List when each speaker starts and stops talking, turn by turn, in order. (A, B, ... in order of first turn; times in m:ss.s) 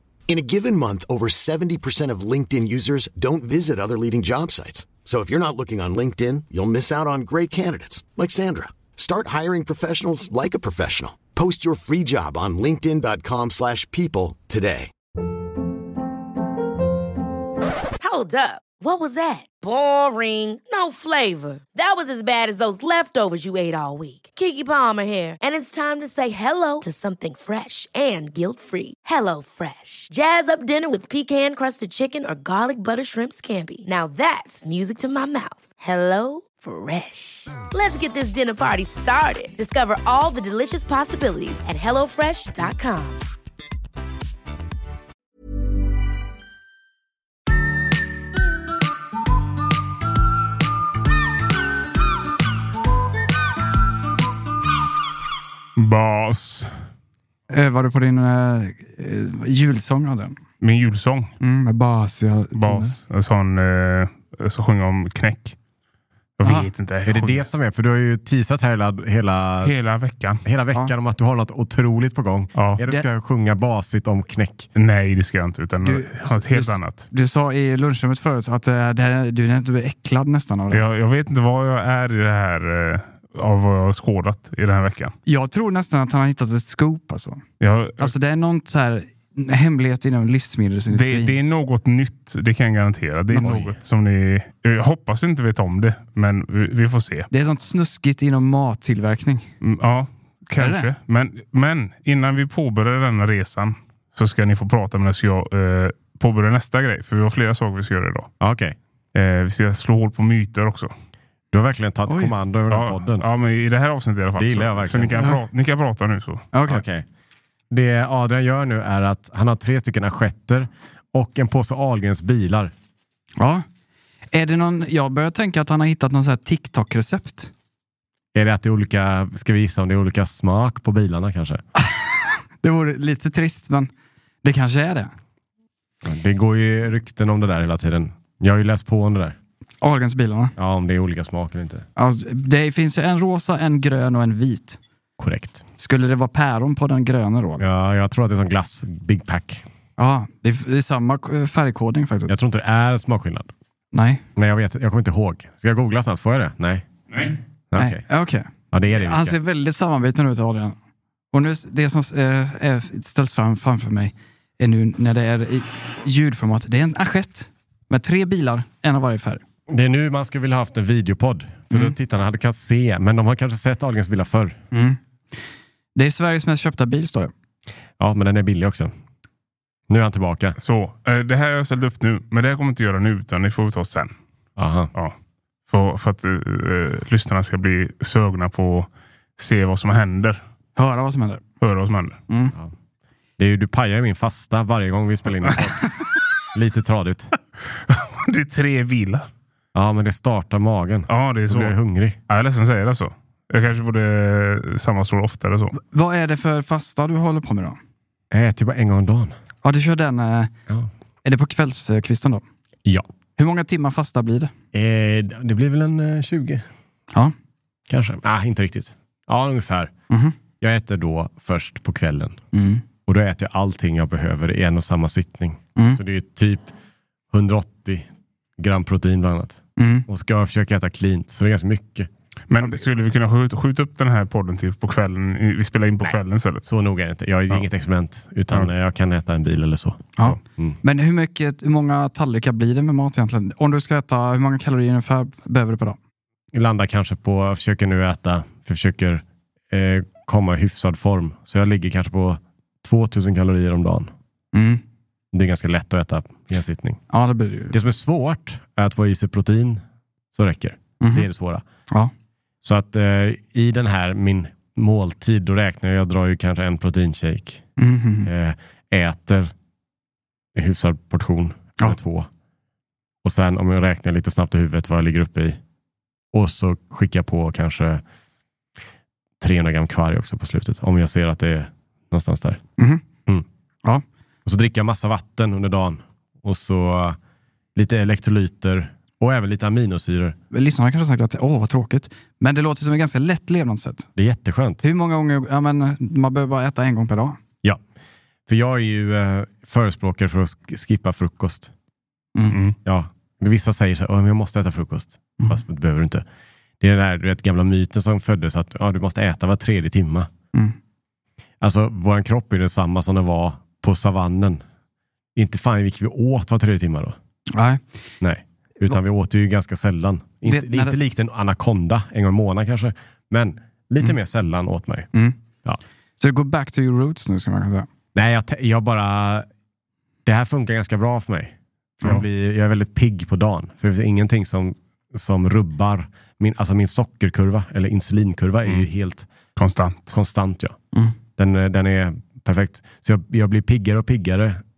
0:00.3-0:14.9 A
0:18.0-0:43.3 B
0:55.8-0:56.7 C
0:57.5-1:00.4 D
1:00.6-1:01.3 C
1:01.4-1:03.0 D
1:02.5-1:05.6 C
1:06.4-1:07.4 C
1:06.4-1:06.7 D
1:07.0-1:09.8 E
1:09.6-1:10.4 C
1:10.4-1:14.7 E
1:14.8-1:17.1 C
1:15.8-1:20.8 D
1:20.7-1:25.1 C
1:25.2-1:27.4 D
1:27.6-1:28.1 C
1:28.0-1:31.3 D
1:30.9-1:37.3 C
1:33.3-1:33.6 D
1:33.4-1:33.8 E
1:37.3-1:39.5 D
1:39.6-1:48.3 C
1:40.6-1:40.9 D
1:48.4-1:48.8 E
1:49.1-1:50.9 C
1:51.5-1:53.2 E
1:52.1-1:52.3 D
1:52.7-1:56.4 C
1:54.4-1:55.3 E
1:56.5-1:56.8 D
1:56.7-1:57.0 E
1:57.7-2:02.7 E
2:03.4-2:03.6 D
2:04.3-2:07.5 D
2:08.3-2:11.6 E
2:11.8-2:13.9 D
2:14.4-2:15.1 D
2:16.0-2:19.4 E
2:19.8-2:20.5 D
2:20.6-2:21.8 E
2:22.0-2:24.8 D
2:25.2-2:25.6 E
2:25.8-2:27.6 D
2:27.6-2:29.6 E
2:30.0-2:32.4 D
2:32.3-2:33.5 E
2:33.9-2:34.2 D
2:34.4-2:36.8 E
2:37.7-2:38.0 E
2:37.8-2:40.7 D
2:38.7-2:39.4 E
2:41.3-2:49.4 D
2:49.7-2:54.6 E
2:54.7-2:55.0 D
2:55.9-2:57.3 D
2:58.0-2:58.9 E
2:59.9-3:00.6 E
3:00.6-3:04.1 C
3:04.6-3:04.9 E
3:05.7-3:10.4 C
3:10.8-3:11.4 D
3:11.6-3:12.2 C
3:12.3-3:12.5 D
3:13.4-3:15.9 E
3:16.5-3:17.3 E
3:17.9-3:19.3 C
3:19.7-3:22.2 E
3:21.1-3:21.7 C
3:22.3-3:25.7 C
3:25.8-3:27.8 D
3:28.3-3:29.3 E
3:29.6-3:30.5 D
3:31.2-3:32.4 D
3:33.4-3:34.5 D
3:34.7-3:36.6 E
3:37.9-3:39.9 E
3:40.1-3:40.4 D
3:40.6-3:42.4 E
3:42.5-3:42.8 D
3:43.0-3:46.7 E
3:47.3-3:52.1 E
3:49.8-3:50.0 D
3:52.5-3:56.6 C
3:56.0-4:00.8 E
4:00.2-4:06.0 D
4:06.5-4:14.1 E
4:14.5-4:14.8 D
4:15.3-4:17.0 E
4:17.1-4:17.8 D
4:17.7-4:19.8 E
4:20.3-4:21.6 E
4:21.0-4:21.3 D
4:22.6-4:27.6 E
4:27.8-4:28.3 D
4:28.2-4:29.5 E
4:30.5-4:32.3 E
4:33.2-4:35.6 E
4:36.3-4:38.0 E
4:39.4-4:42.6 E
4:42.8-4:43.0 D
4:44.4-4:47.2 E
4:47.7-4:50.4 E
4:50.5-4:54.1 D
4:54.2-4:54.8 E
4:54.8-4:57.4 D
4:58.5-5:01.7 E
5:02.3-5:02.6 D
5:02.8-5:06.2 E
5:06.8-5:10.3 E
5:11.6-5:14.6 E
5:15.3-5:17.2 E
5:17.5-5:17.8 D
5:18.2-5:25.1 E
5:20.5-5:21.0 D
5:26.2-5:27.9 D
5:28.1-5:29.5 E
5:30.2-5:39.3 E
5:39.6-5:40.1 C
5:40.1-5:40.8 E
5:41.4-5:44.6 E